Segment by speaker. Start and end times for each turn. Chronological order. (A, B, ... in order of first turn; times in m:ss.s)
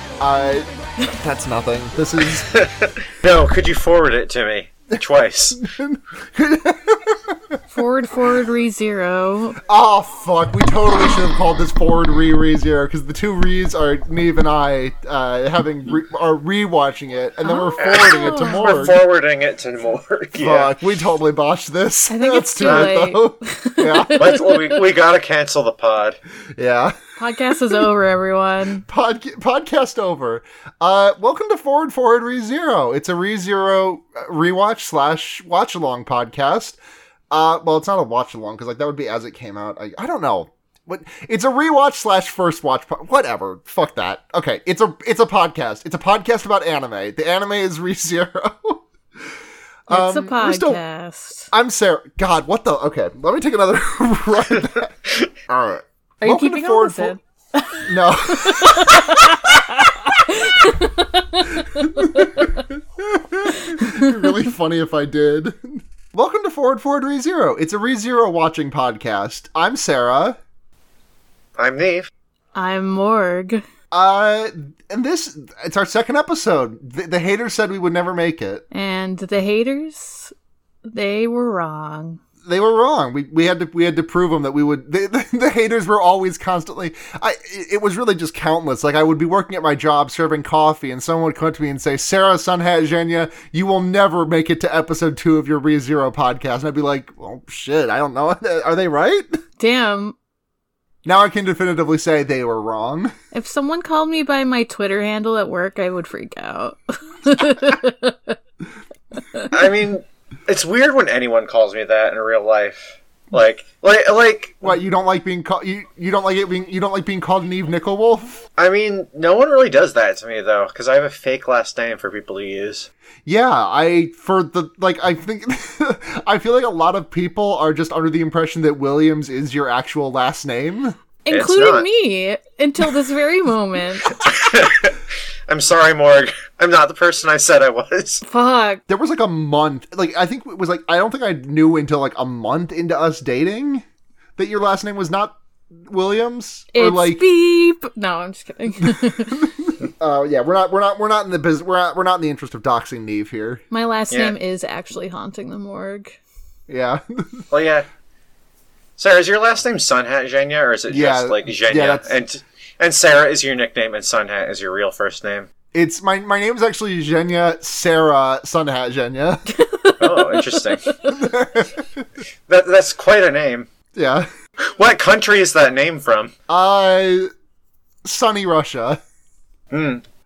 0:00.2-0:02.5 A
0:02.5-0:05.6 B
0:05.6-0:07.6 A
0:07.7-0:09.6 C
0:09.6-0:19.0 A
0:17.4-0:18.7 C
0:17.8-0:20.7 B
0:20.4-0:24.4 A
0:22.1-0:24.8 C
0:22.6-0:22.9 B
0:24.2-0:26.2 B
0:26.6-0:27.0 A
0:27.2-0:28.8 C
0:28.9-0:36.8 A
0:37.3-0:48.8 A
0:49.9-0:50.8 A
0:49.9-0:51.5 C
0:51.5-0:54.9 A
0:55.5-0:57.2 A
0:56.2-1:02.6 C
0:57.8-0:59.9 A
1:01.7-1:10.4 A
1:03.5-1:04.3 C
1:11.6-1:12.1 B
1:12.5-1:13.6 C
1:13.9-1:18.6 A
1:18.7-1:20.3 C
1:20.9-1:22.2 C
1:22.4-1:39.4 A
1:39.6-1:40.2 C
1:41.0-1:43.1 A
1:43.3-1:48.4 C
1:49.2-1:49.5 C
1:49.5-1:54.6 B
1:54.6-1:58.4 A
1:58.6-2:02.9 B
2:03.2-2:11.0 A
2:11.2-2:14.2 C
2:11.3-2:11.8 B
2:14.2-2:18.2 B
2:18.2-2:18.8 C
2:18.9-2:23.8 A
2:24.4-2:27.2 A
2:26.7-2:29.4 C
2:28.9-2:33.6 A
2:33.7-2:36.2 C
2:36.7-2:37.4 A
2:37.5-2:37.9 B
2:39.0-2:45.5 B
2:40.9-2:42.1 A
2:45.7-2:49.4 A
2:49.5-2:51.1 C
2:50.0-2:50.9 B
2:51.1-2:52.0 A
2:52.5-2:53.7 B
2:53.9-2:54.3 A
2:54.8-2:56.3 B
2:56.5-2:57.3 A
2:58.0-2:59.0 A
2:59.7-3:00.0 B